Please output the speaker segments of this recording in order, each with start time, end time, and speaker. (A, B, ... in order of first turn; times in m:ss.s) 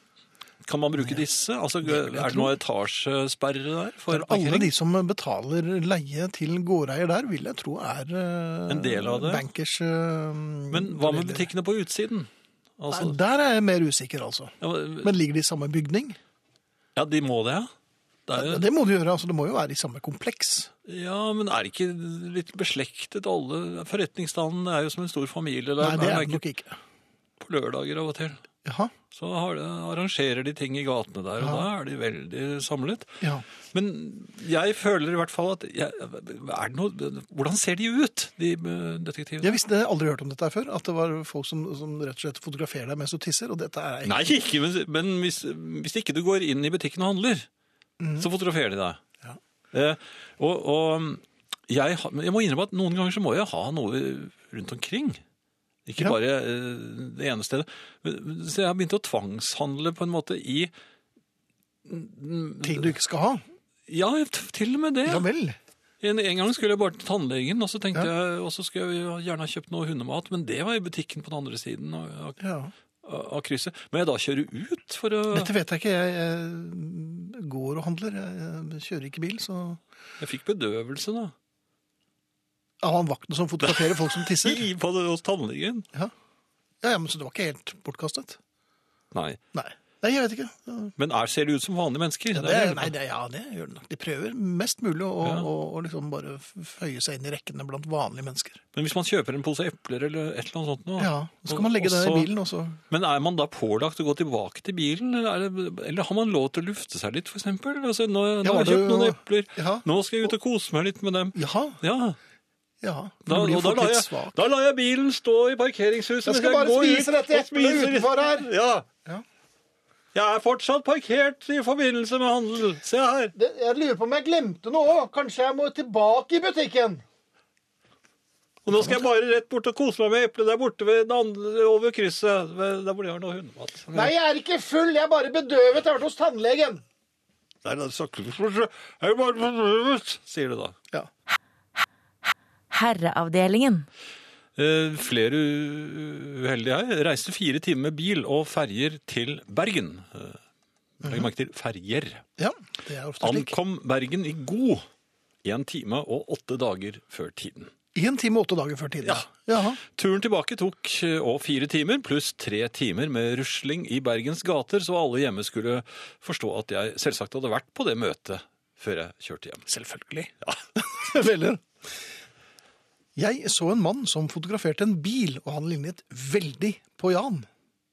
0:00.6-0:04.7 A
0:01.0-0:01.2 B
0:01.8-0:02.6 B
0:04.1-0:11.5 B
0:08.7-0:09.4 A
0:10.7-0:13.2 A
0:12.9-0:16.2 B
0:14.6-0:15.1 A
0:17.0-0:17.7 A
0:18.3-0:18.6 A
0:18.4-0:20.7 B
0:20.9-0:26.4 A
0:25.8-0:26.8 B
0:27.4-0:28.4 A
0:28.6-0:28.9 B
0:29.1-0:33.1 A
0:31.4-0:31.7 B
0:33.7-0:39.6 A
0:39.4-0:44.2 B
0:44.0-0:47.5 A
0:48.0-0:48.3 B
0:48.2-0:49.0 A
0:49.7-0:55.2 A
0:55.9-1:00.7 A
1:01.9-1:02.9 A
1:02.6-1:03.4 B
1:03.9-1:05.3 A
1:05.0-1:05.6 B
1:06.0-1:12.4 A
1:12.4-1:12.7 B
1:13.0-1:15.5 A
1:15.3-1:19.8 B
1:20.2-1:21.3 A
1:22.8-1:24.7 B
1:23.6-1:25.9 A
1:26.8-1:28.4 B
1:29.1-1:29.4 A
1:29.5-1:30.9 B
1:31.0-1:32.9 A
1:32.3-1:38.6 B
1:38.8-1:42.3 A
1:41.0-1:42.8 B
1:42.9-1:52.2 A
1:48.4-1:49.8 B
1:51.4-1:51.8 B
1:52.8-1:54.4 B
1:53.3-1:58.9 A
1:56.2-1:58.5 B
2:00.1-2:03.3 A
2:03.4-2:07.0 B
2:08.6-2:14.1 A
2:13.9-2:16.8 B
2:17.6-2:20.8 A
2:24.6-2:30.4 A
2:31.0-2:32.2 A
2:31.0-2:31.3 B
2:32.4-2:33.6 B
2:33.2-2:34.8 A
2:35.4-2:37.7 A
2:37.9-2:39.8 B
2:39.0-2:49.7 A
2:49.7-2:51.6 B
2:53.2-2:57.5 B